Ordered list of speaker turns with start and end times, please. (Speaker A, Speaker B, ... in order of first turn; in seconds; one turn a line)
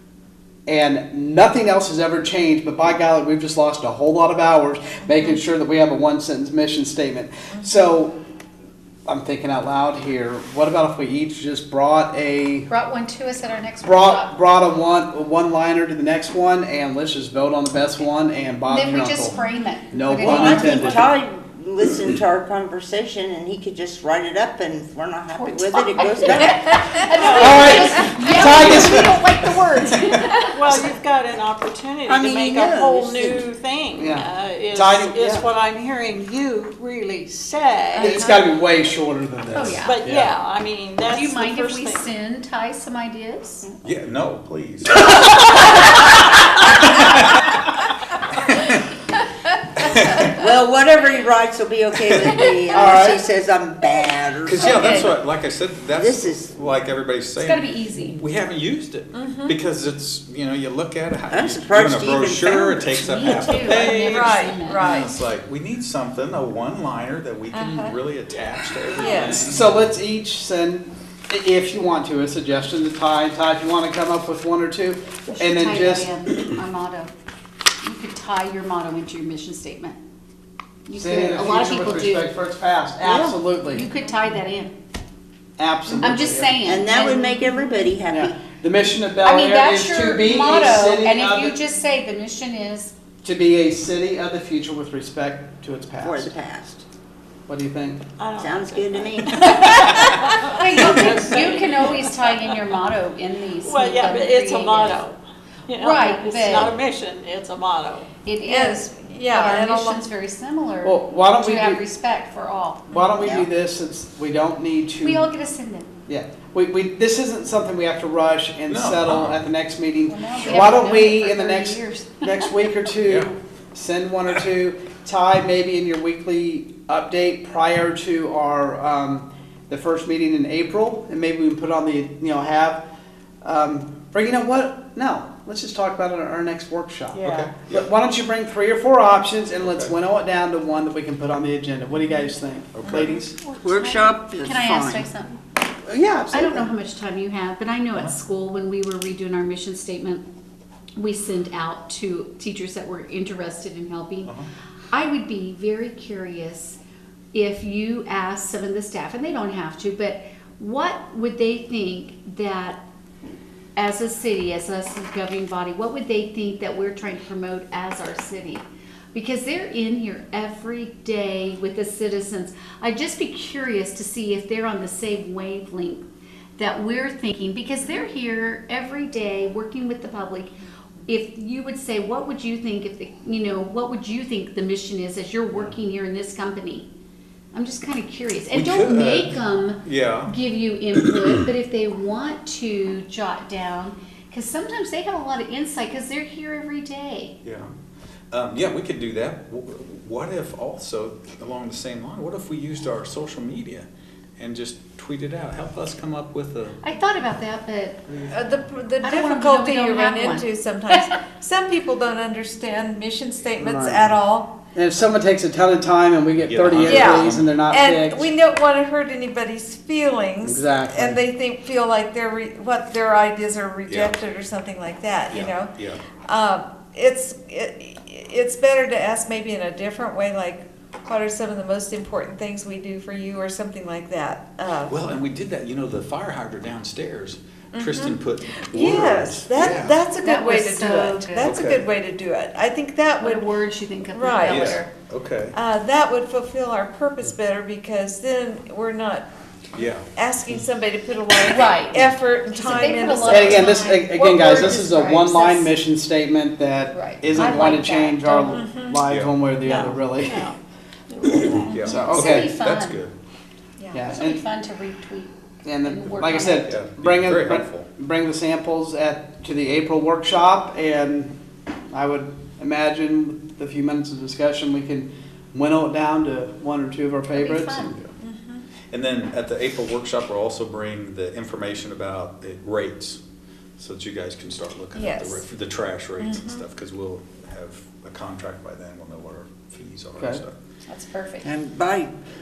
Speaker A: 0.7-8.2
Speaker B: 5.0-5.4
Speaker B: 7.5-7.8
Speaker A: 9.1-12.7
Speaker C: 12.7-14.3
Speaker A: 13.8-19.3
Speaker C: 18.6-21.2
Speaker A: 19.9-21.1
Speaker D: 20.2-27.3
Speaker C: 25.3-30.8
Speaker E: 27.1-28.8
Speaker A: 27.3-29.3
Speaker E: 30.5-38.2
Speaker D: 32.0-33.5
Speaker A: 33.9-35.5
Speaker C: 37.9-38.4
Speaker A: 38.0-40.3
Speaker C: 39.5-40.0
Speaker E: 39.8-42.1
Speaker C: 41.1-43.7
Speaker F: 43.8-45.1
Speaker F: 46.8-47.1
Speaker C: 49.7-50.5
Speaker F: 49.8-50.3
Speaker D: 50.3-55.1
Speaker C: 52.2-52.5
Speaker A: 52.7-53.2
Speaker F: 54.4-64.2
Speaker C: 54.6-55.1
Speaker D: 55.9-56.6
Speaker C: 57.4-58.2
Speaker B: 59.1-59.5
Speaker D: 61.3-63.8
Speaker C: 62.5-65.2
Speaker E: 63.7-64.3
Speaker B: 64.1-65.1
Speaker F: 64.8-69.9
Speaker B: 67.5-67.9
Speaker B: 69.0-69.5
Speaker A: 69.4-76.1
Speaker C: 75.3-77.1
Speaker C: 77.8-80.0
Speaker C: 80.9-82.3
Speaker A: 81.0-83.9
Speaker D: 83.0-83.3
Speaker C: 83.2-84.7
Speaker A: 85.6-86.6
Speaker C: 86.0-87.9
Speaker D: 86.6-88.4
Speaker A: 88.1-91.6
Speaker C: 89.2-92.9
Speaker A: 93.2-96.3
Speaker D: 96.0-96.8
Speaker A: 97.5-98.0
Speaker E: 98.2-102.7
Speaker D: 98.4-99.9
Speaker C: 100.4-105.1
Speaker E: 103.6-108.1
Speaker C: 105.7-106.8
Speaker C: 108.2-113.4
Speaker B: 108.4-110.0
Speaker A: 110.8-111.8
Speaker A: 112.9-115.3
Speaker D: 113.2-113.5
Speaker C: 115.0-115.9
Speaker A: 116.1-132.8
Speaker F: 118.7-119.5
Speaker C: 120.1-122.5
Speaker F: 123.0-123.3
Speaker A: 133.4-143.3
Speaker E: 137.2-137.4
Speaker F: 137.2-137.9
Speaker F: 139.6-139.9
Speaker F: 142.7-143.1
Speaker C: 142.9-145.4
Speaker D: 143.6-145.1
Speaker A: 145.9-146.7
Speaker C: 146.3-150.2
Speaker C: 151.0-154.3
Speaker C: 154.9-156.8
Speaker C: 157.3-162.8
Speaker C: 163.8-176.1
Speaker C: 176.6-180.5
Speaker C: 181.1-186.9
Speaker C: 187.5-197.3
Speaker F: 188.5-190.3
Speaker F: 197.4-197.7
Speaker F: 198.3-203.9
Speaker F: 204.4-206.8
Speaker C: 206.8-208.2
Speaker B: 208.3-214.6
Speaker C: 209.0-211.0
Speaker A: 213.6-214.2
Speaker A: 214.7-218.3
Speaker F: 216.3-217.5
Speaker B: 216.8-225.7
Speaker A: 220.4-221.2
Speaker F: 223.9-224.1
Speaker F: 225.3-226.0
Speaker B: 226.2-234.9
Speaker F: 234.9-240.0
Speaker B: 237.7-243.5
Speaker C: 240.2-241.6
Speaker F: 241.4-241.8
Speaker C: 243.2-244.9
Speaker B: 244.1-244.7
Speaker F: 244.5-245.6
Speaker B: 245.5-249.3
Speaker F: 249.7-250.1
Speaker B: 250.1-254.8
Speaker C: 251.4-255.7
Speaker A: 253.2-260.5
Speaker C: 256.9-258.6
Speaker B: 258.5-259.0
Speaker E: 259.6-260.6
Speaker E: 261.1-261.8
Speaker A: 261.3-262.5
Speaker F: 261.7-263.1
Speaker C: 261.7-263.0
Speaker B: 263.8-264.0
Speaker A: 263.9-264.4
Speaker C: 264.0-266.8
Speaker A: 265.6-271.4
Speaker F: 266.7-267.9
Speaker A: 271.9-278.0
Speaker C: 277.3-278.0
Speaker B: 278.2-278.6
Speaker F: 278.9-283.2
Speaker F: 283.8-290.6
Speaker B: 284.9-285.4
Speaker B: 286.2-286.6
Speaker C: 290.9-291.5
Speaker D: 291.4-292.1